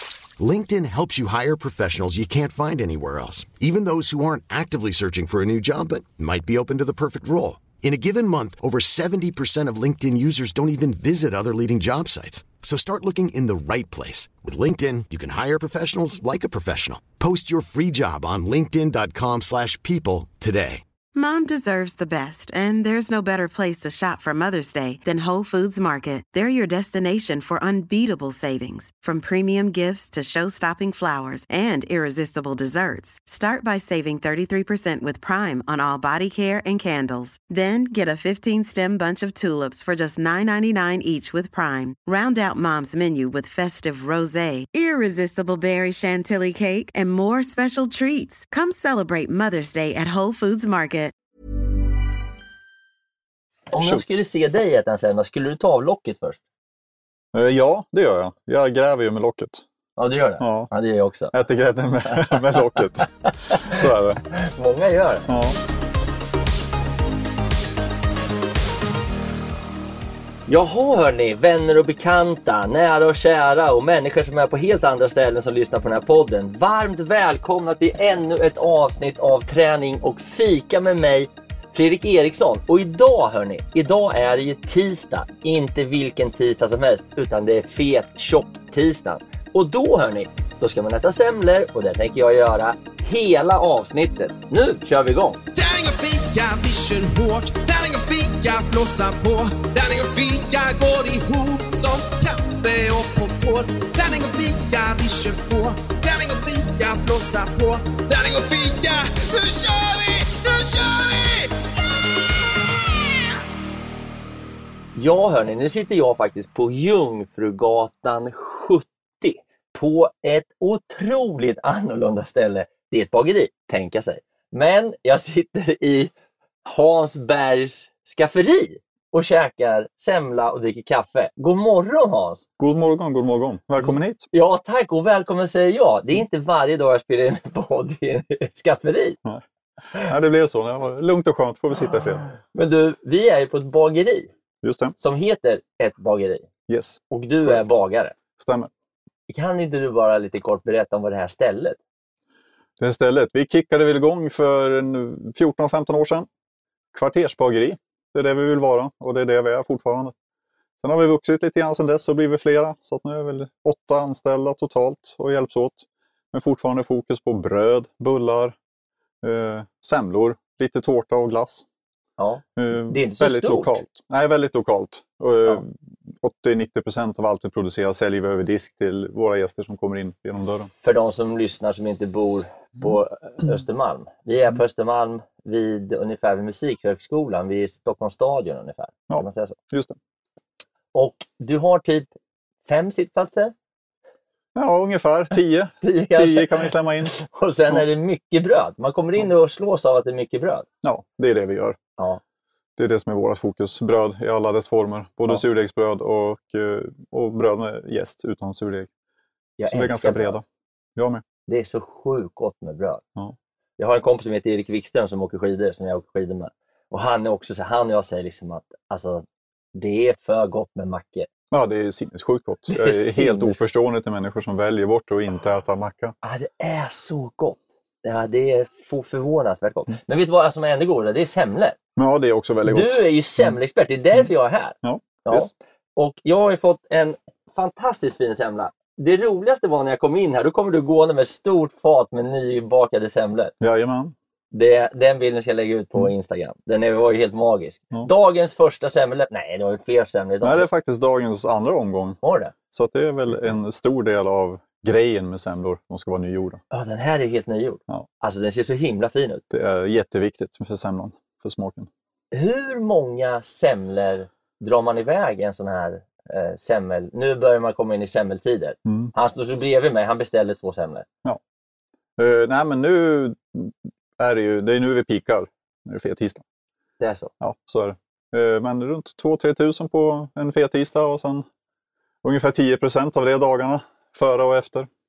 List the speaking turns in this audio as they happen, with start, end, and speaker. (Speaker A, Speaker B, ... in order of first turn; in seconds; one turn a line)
Speaker A: 0.4-20.8
Speaker B: 21.1-51.1
Speaker C: 53.7-56.4
Speaker D: 53.8-54.1
Speaker D: 57.3-59.6
Speaker C: 60.0-61.3
Speaker D: 60.4-60.7
Speaker D: 61.3-64.2
Speaker C: 62.1-62.4
Speaker C: 64.3-65.3
Speaker D: 65.3-65.6
Speaker C: 70.5-95.4
Speaker E: 95.5-112.1
Speaker C: 114.9-126.1
Speaker C: 126.6-132.4
Speaker D: 132.6-134.3
Speaker C: 133.8-139.2
Speaker D: 139.2-142.3
Speaker C: 142.5-144.3
Speaker D: 144.6-144.9
Speaker C: 145.0-146.4
Speaker D: 146.7-147.8
Speaker C: 147.1-148.1
Speaker D: 148.4-148.7
Speaker C: 149.3-151.8
Speaker D: 152.8-156.3
Speaker D: 156.9-160.1
Speaker D: 160.8-168.6
Speaker D: 169.2-171.7
Speaker C: 172.2-173.8
Speaker D: 172.6-180.7
Speaker C: 180.8-189.5
Speaker D: 189.1-189.9
Speaker C: 190.9-192.1
Speaker C: 192.7-193.5
Speaker D: 194.5-197.2
Speaker C: 195.8-200.7
Speaker D: 200.8-201.8
Speaker D: 202.8-208.9
Speaker C: 209.6-210.4
Speaker D: 209.7-210.4
Speaker D: 210.9-211.2
Speaker C: 211.5-213.0
Speaker C: 213.8-221.3
Speaker D: 221.5-226.2
Speaker C: 222.7-223.6
Speaker C: 226.2-231.8
Speaker D: 231.9-233.1
Speaker C: 232.7-243.5
Speaker D: 234.8-235.5
Speaker D: 243.6-244.1
Speaker C: 244.5-250.7
Speaker D: 250.4-252.2
Speaker C: 252.2-252.5
Speaker D: 252.7-256.6
Speaker C: 256.7-259.4
Speaker D: 259.5-261.9
Speaker C: 262.3-271.1
Speaker D: 268.9-269.1
Speaker D: 272.2-276.4
Speaker C: 277.0-277.3
Speaker D: 277.4-281.4
Speaker D: 282.2-284.9